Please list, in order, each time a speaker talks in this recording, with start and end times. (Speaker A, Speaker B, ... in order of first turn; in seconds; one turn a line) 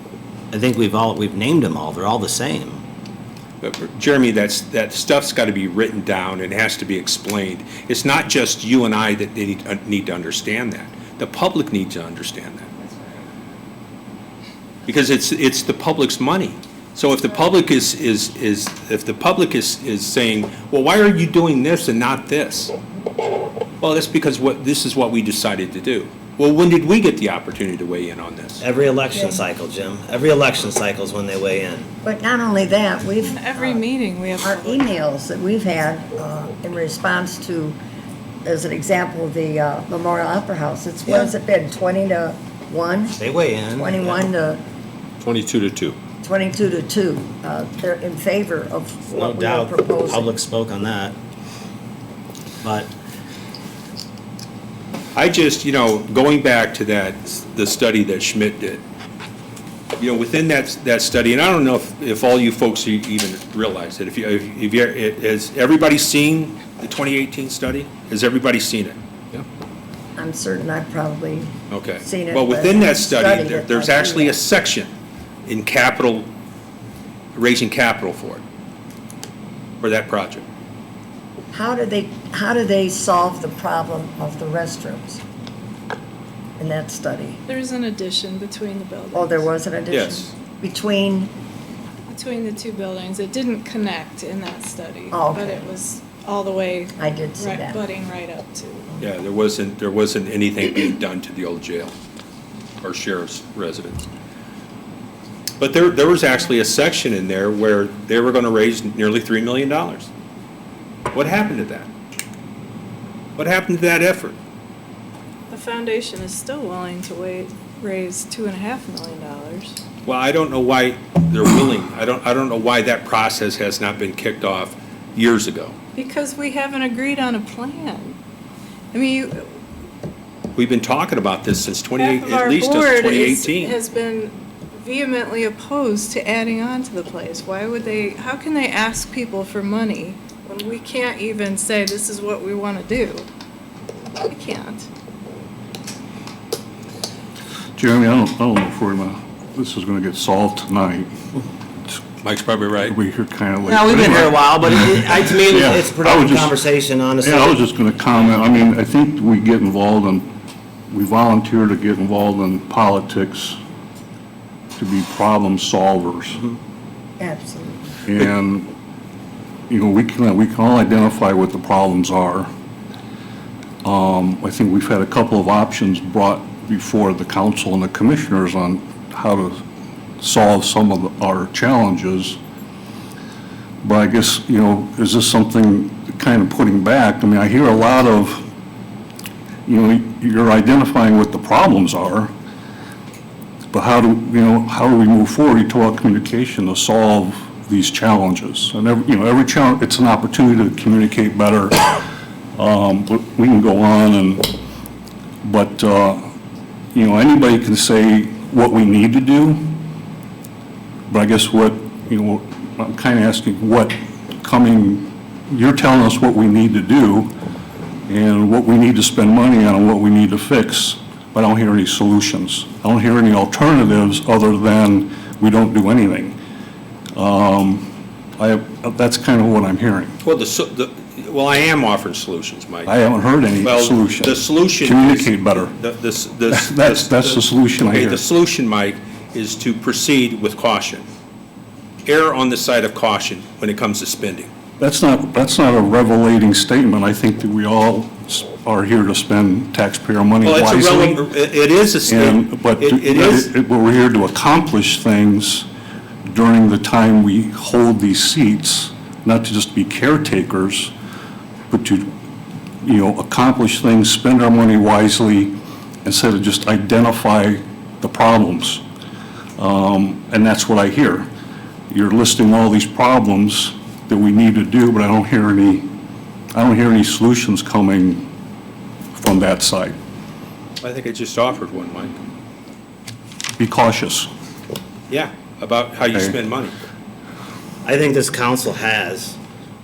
Speaker A: 0.5-2.8
Speaker B: 3.6-12.7
Speaker B: 14.8-22.7
Speaker B: 23.8-28.6
Speaker A: 28.6-31.9
Speaker C: 32.0-33.8
Speaker D: 33.2-34.9
Speaker C: 34.4-37.8
Speaker C: 38.5-43.2
Speaker A: 41.1-41.3
Speaker A: 43.2-44.3
Speaker C: 43.7-44.6
Speaker B: 45.2-46.0
Speaker C: 46.2-50.3
Speaker A: 49.1-51.1
Speaker A: 52.6-52.9
Speaker B: 55.1-58.8
Speaker B: 60.0-69.4
Speaker C: 70.2-74.4
Speaker B: 71.7-74.9
Speaker B: 75.5-76.3
Speaker B: 77.3-78.4
Speaker B: 79.8-80.4
Speaker C: 81.5-85.2
Speaker C: 86.6-87.4
Speaker D: 87.5-89.5
Speaker C: 89.1-91.3
Speaker B: 89.9-90.3
Speaker D: 92.1-98.9
Speaker C: 95.1-95.7
Speaker C: 97.0-97.8
Speaker B: 99.0-101.9
Speaker B: 102.8-104.1
Speaker B: 105.6-110.1
Speaker B: 111.1-111.9
Speaker B: 113.4-114.4
Speaker D: 115.5-119.8
Speaker B: 120.0-125.8
Speaker D: 126.0-128.2
Speaker D: 128.9-129.5
Speaker B: 130.6-133.8
Speaker D: 132.0-143.3
Speaker D: 144.3-144.9
Speaker E: 147.8-151.1
Speaker B: 152.2-152.9
Speaker E: 152.8-156.6
Speaker A: 153.6-157.6
Speaker E: 157.2-160.3
Speaker E: 160.9-163.6
Speaker E: 164.8-166.4
Speaker C: 167.2-168.0
Speaker E: 168.1-168.7
Speaker E: 169.7-172.5
Speaker E: 173.8-179.7
Speaker E: 180.2-182.4
Speaker E: 183.8-188.5
Speaker E: 189.7-192.3
Speaker E: 193.7-204.6
Speaker E: 205.4-206.3
Speaker E: 206.9-209.9
Speaker E: 211.1-217.3
Speaker E: 218.1-226.4
Speaker E: 227.2-230.2
Speaker B: 230.2-232.9
Speaker E: 232.8-235.8
Speaker B: 233.6-241.1
Speaker E: 236.5-238.2
Speaker B: 242.1-244.5
Speaker E: 244.8-251.2
Speaker B: 250.4-253.5
Speaker E: 252.1-255.7
Speaker E: 256.3-260.9
Speaker E: 261.7-262.1
Speaker E: 262.8-268.8
Speaker E: 269.6-271.3
Speaker E: 271.9-275.9
Speaker E: 276.5-278.3
Speaker E: 279.1-280.0
Speaker B: 280.8-282.2
Speaker E: 283.6-284.3
Speaker B: 285.1-286.8
Speaker A: 287.8-289.4